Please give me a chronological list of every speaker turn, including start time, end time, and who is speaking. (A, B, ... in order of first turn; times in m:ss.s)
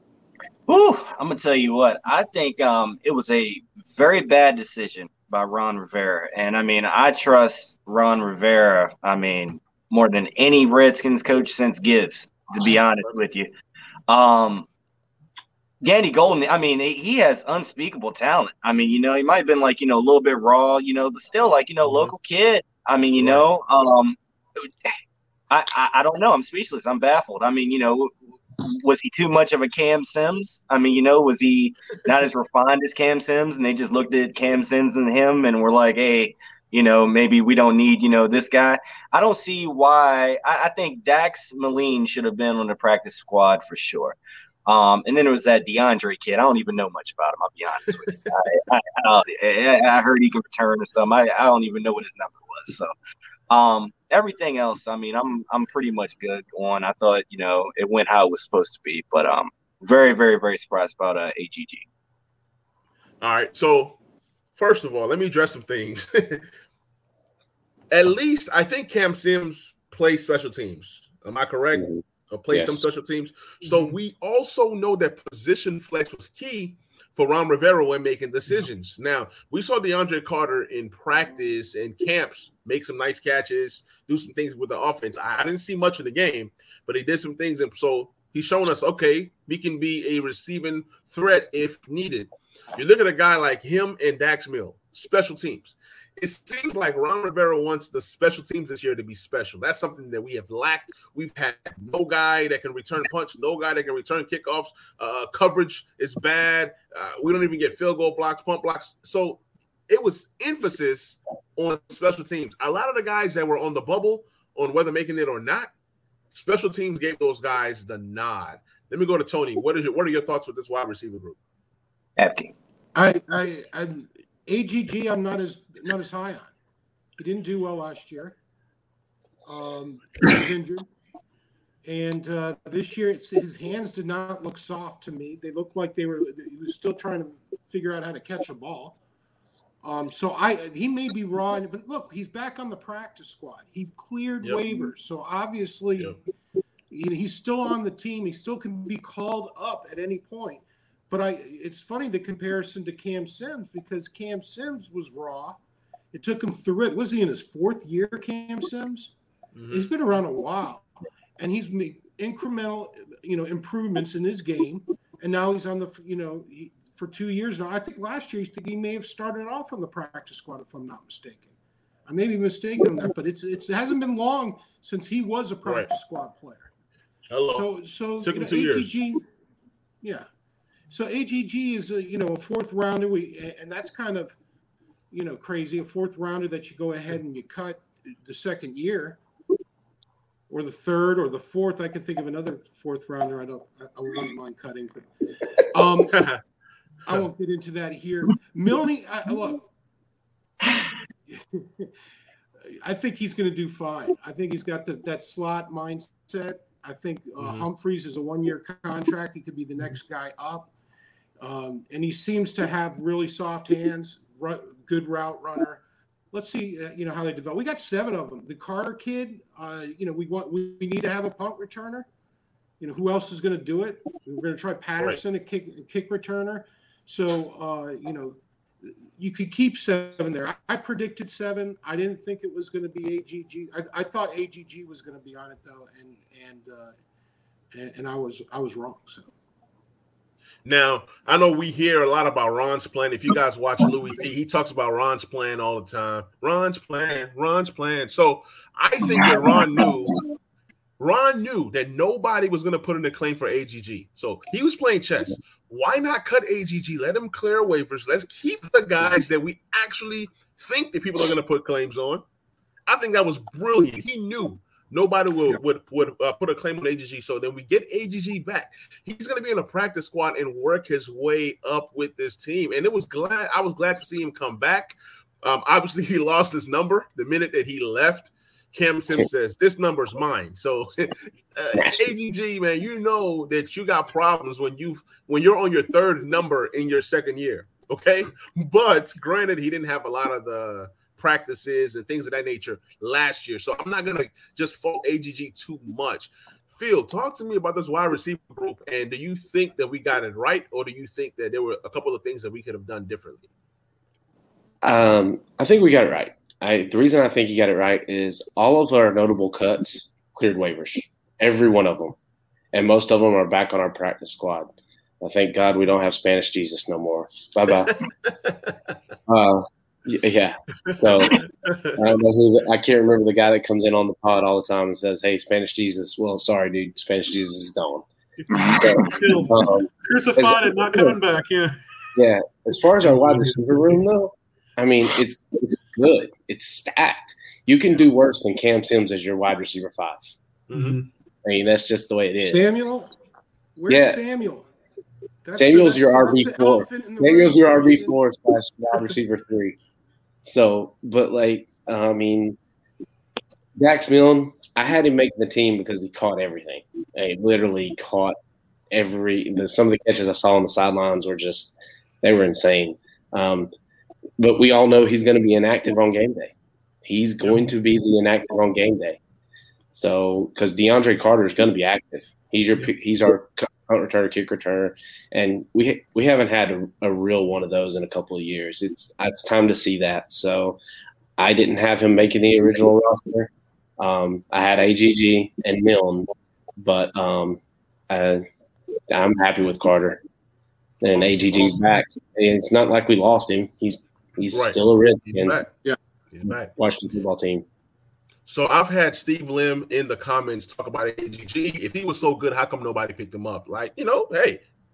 0:00.7-0:13.5 A
0:14.1-0:14.7 A
0:15.8-0:24.9 A
0:21.8-0:22.1 B
0:23.2-0:23.5 B
0:25.5-0:52.9 A
0:53.5-1:01.8 A
1:03.2-1:04.0 B
1:04.6-1:06.4 B
1:07.9-1:55.7 B
1:11.7-1:12.8 C
1:13.6-1:14.0 D
1:56.3-2:01.4 B
2:02.2-2:02.5 A
2:03.0-2:06.5 E
2:07.2-2:08.4 E
2:09.5-2:10.8 E
2:11.8-2:19.0 E
2:19.8-2:26.1 E
2:26.9-2:35.6 E
2:36.1-2:39.1 E
2:39.6-2:39.9 B
2:39.7-2:51.5 E
2:52.1-2:56.7 E
2:57.3-2:57.7 B
2:57.5-2:59.2 E
2:58.2-2:59.0 B
3:00.9-3:04.4 E
3:05.1-3:09.2 E
3:10.5-3:15.1 E
3:15.7-3:16.3 E
3:16.1-3:16.4 B
3:17.1-3:19.7 E
3:21.3-3:21.9 E
3:22.7-3:30.7 E
3:27.4-3:27.7 B
3:31.4-3:42.1 E
3:42.8-3:57.0 E
3:57.7-3:59.3 E
4:00.6-4:10.2 B
4:09.1-4:10.2 A
4:11.0-4:22.2 B
4:22.9-5:03.5 B
4:41.8-4:42.0 C
5:04.8-5:12.2 C
5:12.7-5:14.7 C
5:15.2-5:18.0 C
5:19.3-5:28.0 C
5:20.9-5:22.0 B
5:28.4-5:31.8 D
5:28.5-5:29.1 A
5:28.7-5:31.2 C
5:32.2-5:40.3 C
5:33.0-5:34.0 D
5:40.7-5:41.0 B
5:40.7-5:41.1 D
5:41.4-5:42.7 C
5:42.4-5:43.1 E
5:43.8-5:44.7 E
5:43.9-5:44.2 C
5:45.4-5:48.2 E
5:45.6-5:49.8 C
5:50.4-5:52.6 C
5:53.8-5:58.4 C
5:58.9-6:03.7 C
6:04.4-6:06.5 C
6:07.0-6:09.2 C
6:09.9-6:20.8 C
6:21.4-6:28.4 C
6:29.1-6:30.2 C
6:31.0-6:35.6 C
6:34.5-6:35.7 B
6:36.3-6:36.7 B
6:36.8-6:37.6 C
6:38.5-6:44.6 B